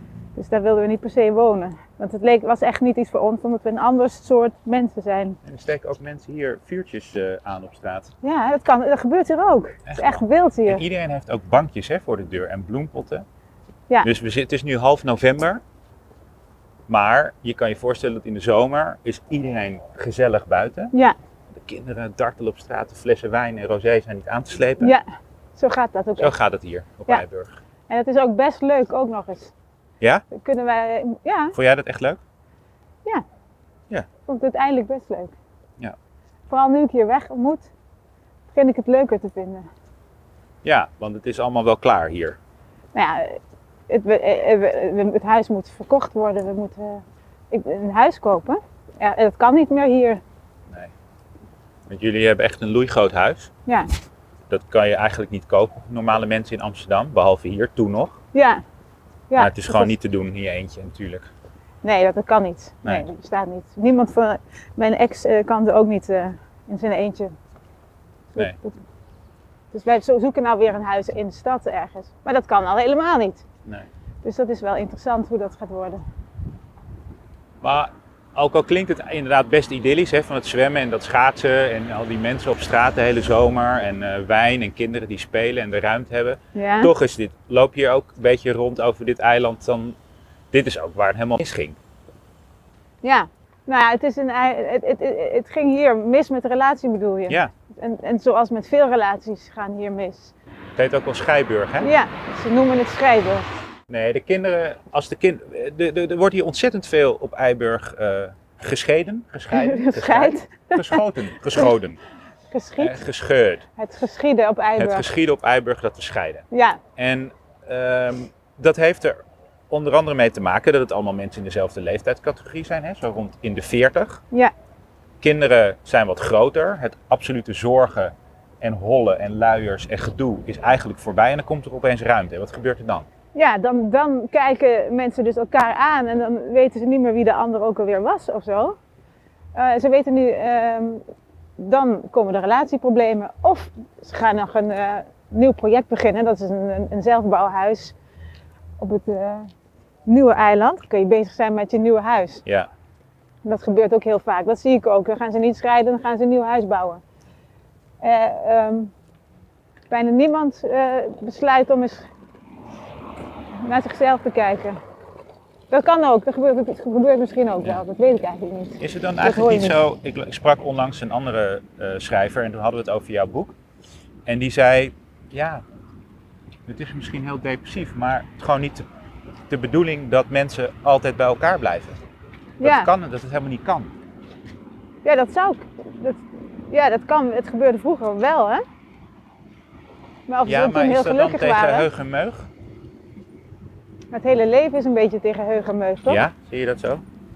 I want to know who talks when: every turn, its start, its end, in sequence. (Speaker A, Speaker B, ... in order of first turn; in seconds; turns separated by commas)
Speaker A: 0.4-5.4, Speaker B: 5.4-8.1, Speaker A: 8.2-10.8, Speaker B: 9.9-13.2, Speaker B: 14.0-15.6, Speaker B: 16.9-20.9, Speaker B: 21.6-24.9, Speaker A: 25.6-26.3, Speaker B: 26.2-27.6, Speaker A: 27.9-29.5, Speaker A: 30.3-31.6, Speaker B: 31.6-32.2, Speaker A: 34.3-35.3, Speaker A: 36.5-37.7, Speaker A: 38.5-39.7, Speaker B: 40.6-42.4, Speaker A: 42.9-50.2, Speaker B: 51.9-53.5, Speaker B: 54.5-58.2, Speaker A: 58.3-58.6, Speaker A: 59.3-59.9, Speaker B: 59.4-61.3, Speaker A: 61.8-67.4, Speaker A: 68.3-68.8, Speaker A: 69.7-73.4, Speaker A: 74.2-76.0, Speaker B: 77.6-90.0, Speaker A: 86.5-86.9, Speaker B: 90.5-91.8, Speaker A: 93.0-100.3, Speaker B: 100.8-101.9, Speaker A: 101.8-103.5, Speaker B: 103.9-112.0, Speaker A: 109.5-111.0, Speaker A: 112.5-113.0, Speaker B: 112.8-113.7, Speaker A: 113.8-115.1, Speaker B: 114.8-116.4, Speaker A: 116.5-116.8, Speaker B: 117.0-124.2, Speaker B: 125.2-133.1, Speaker A: 133.3-138.8, Speaker A: 139.6-141.0, Speaker A: 141.6-147.9, Speaker A: 148.8-149.5, Speaker A: 150.1-152.4, Speaker A: 153.4-157.0, Speaker A: 158.0-158.9, Speaker A: 159.9-162.1, Speaker A: 163.6-164.8, Speaker A: 165.7-169.8, Speaker B: 168.8-173.6, Speaker B: 174.2-175.6, Speaker B: 176.7-178.9, Speaker B: 179.5-182.0, Speaker B: 182.6-183.9, Speaker A: 182.6-182.9, Speaker A: 185.0-188.6, Speaker A: 190.3-191.9, Speaker B: 190.4-192.5, Speaker A: 194.1-196.2, Speaker B: 196.1-197.0